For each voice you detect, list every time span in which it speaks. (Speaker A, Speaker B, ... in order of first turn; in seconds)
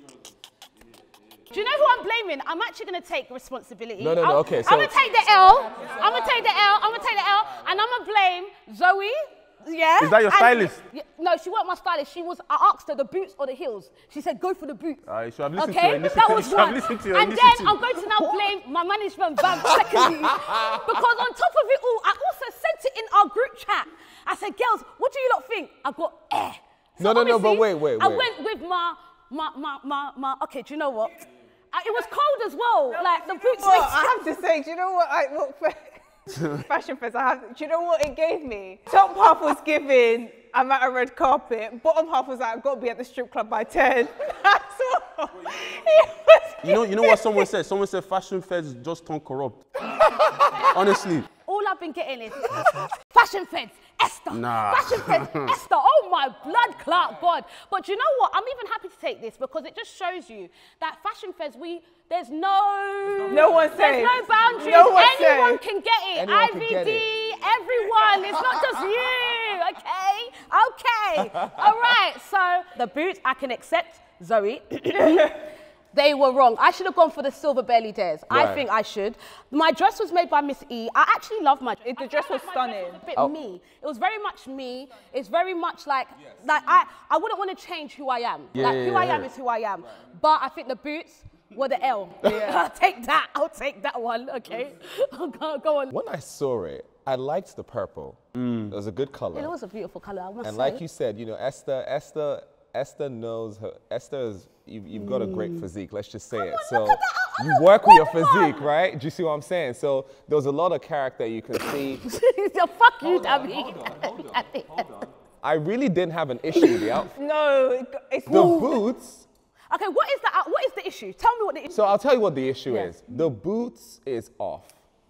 Speaker A: 1.5-15.0, 15.6-34.2, 51.4-75.4, 75.9-96.0, 99.3-100.8, 104.9-105.6, 106.3-108.6, 112.0-115.1, 119.7-121.8
Speaker B: 4.0-5.0, 19.6-21.0, 27.0-28.3, 66.1-67.0, 71.4-71.7, 78.3-78.6, 95.9-99.5, 100.4-112.0, 113.0-117.1, 118.3-119.2, 121.7-124.8
Speaker C: 10.0-10.8, 15.1-18.3, 36.3-36.6, 46.6-49.9, 50.5-51.2, 54.3-55.5, 88.5-89.3, 98.3-98.7
Speaker D: 32.9-47.5, 63.3-65.6, 74.9-75.3, 81.8-83.0, 92.2-92.6, 117.1-118.8, 122.7-123.0